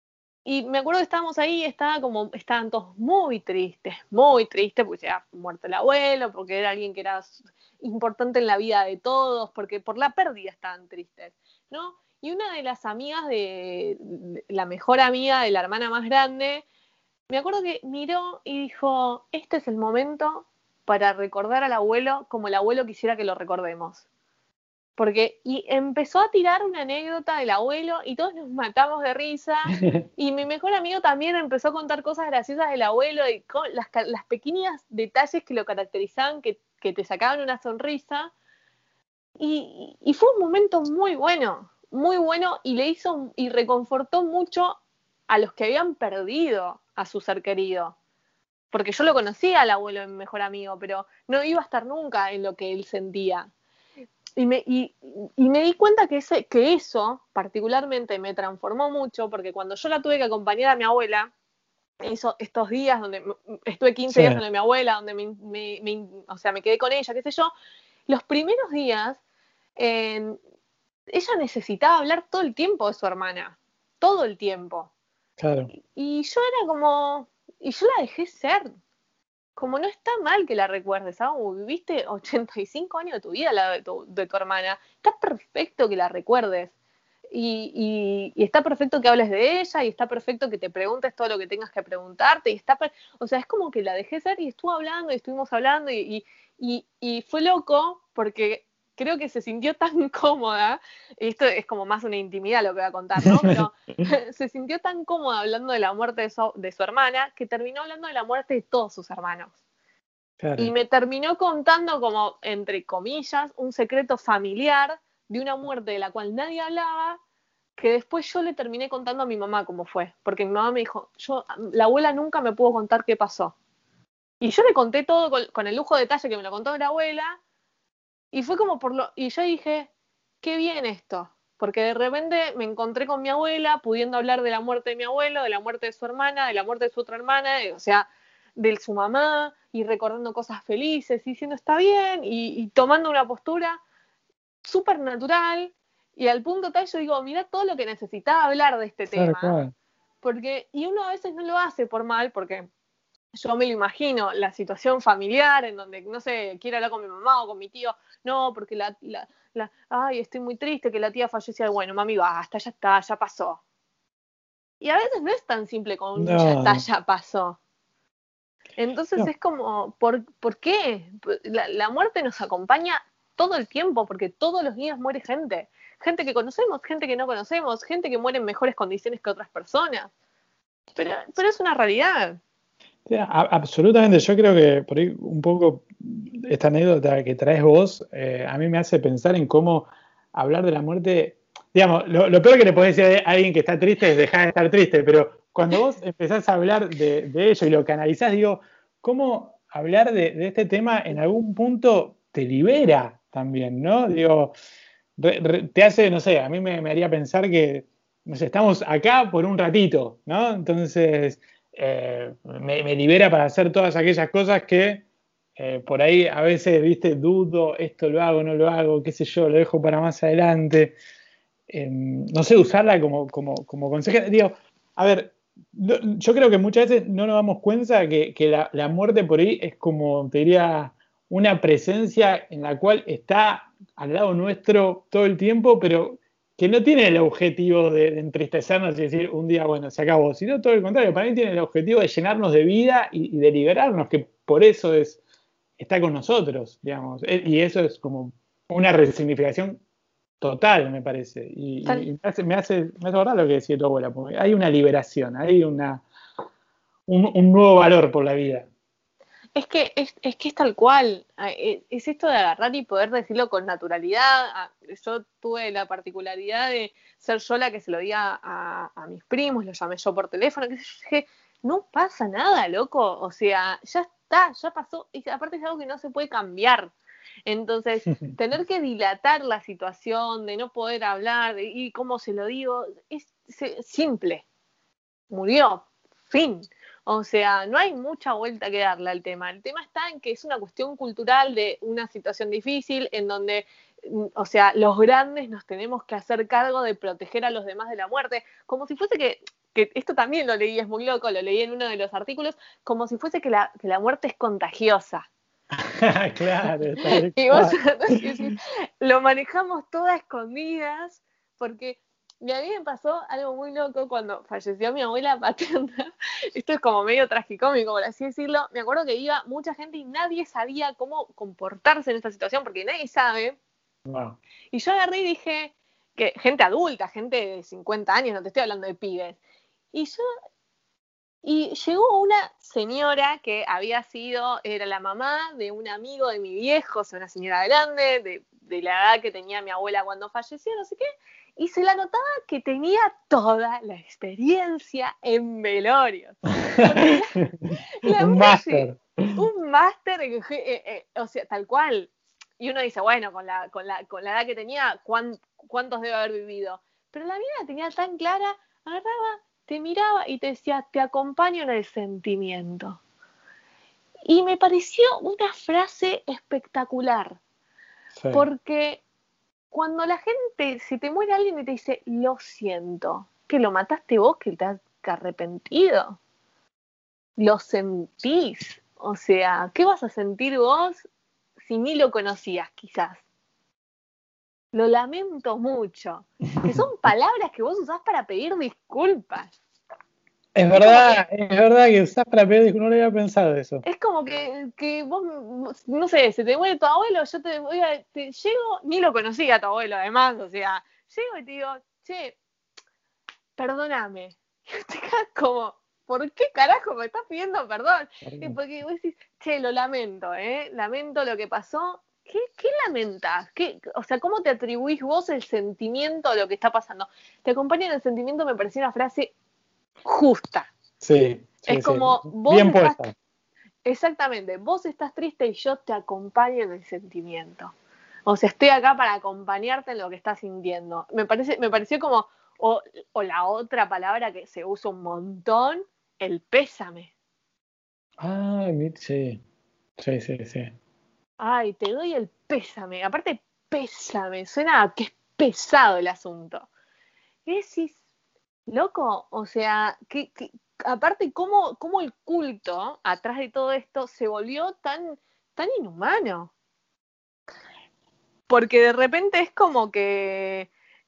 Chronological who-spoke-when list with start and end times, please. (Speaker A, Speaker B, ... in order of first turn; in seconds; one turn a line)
Speaker A: 0.4-16.6
Speaker A: 17.3-24.0
Speaker A: 25.0-38.3
Speaker A: 39.4-48.0
Speaker A: 48.7-53.5
Speaker A: 54.4-61.3
Speaker A: 62.0-67.5
Speaker B: 64.1-64.4
Speaker A: 68.1-69.2
Speaker A: 69.8-70.4
Speaker A: 71.1-74.9
Speaker B: 75.4-75.7
Speaker A: 75.9-78.7
Speaker A: 79.6-86.7
Speaker A: 87.3-109.5
Speaker B: 110.4-110.7
Speaker A: 110.6-117.2
Speaker A: 117.8-123.5
Speaker A: 124.4-127.4
Speaker A: 128.3-129.9
Speaker A: 130.4-143.8
Speaker A: 144.6-149.6
Speaker B: 149.1-149.7
Speaker A: 150.2-152.7
Speaker A: 153.3-163.6
Speaker A: 164.8-167.6
Speaker B: 166.2-166.8
Speaker A: 168.8-180.1
Speaker A: 180.9-182.4
Speaker B: 183.1-204.5
Speaker B: 205.2-215.0
Speaker B: 215.6-221.0
Speaker B: 221.7-245.2
Speaker B: 245.8-249.8
Speaker B: 250.4-256.0
Speaker B: 257.1-258.7
Speaker A: 259.6-276.9
Speaker A: 277.5-284.4
Speaker A: 285.3-305.2
Speaker B: 305.8-307.8
Speaker A: 307.0-323.6
Speaker B: 324.1-324.4
Speaker A: 324.7-329.4
Speaker A: 329.9-330.2
Speaker A: 331.4-341.0
Speaker A: 341.6-347.4
Speaker B: 347.4-349.4
Speaker A: 347.9-363.0
Speaker A: 364.2-367.4
Speaker B: 368.2-368.4
Speaker A: 368.3-369.0
Speaker A: 369.7-376.2
Speaker A: 377.4-381.1
Speaker A: 381.6-383.2
Speaker A: 384.7-389.5
Speaker B: 390.5-393.8
Speaker A: 390.7-391.2
Speaker A: 393.8-402.4
Speaker A: 403.6-419.3
Speaker B: 408.2-408.6
Speaker A: 420.0-420.7
Speaker B: 421.0-423.1
Speaker A: 421.6-423.0
Speaker A: 423.8-427.7
Speaker A: 428.2-437.1
Speaker B: 438.2-439.4
Speaker B: 440.0-440.7
Speaker A: 441.4-446.7
Speaker A: 447.4-448.0
Speaker A: 448.7-456.5
Speaker A: 458.5-460.7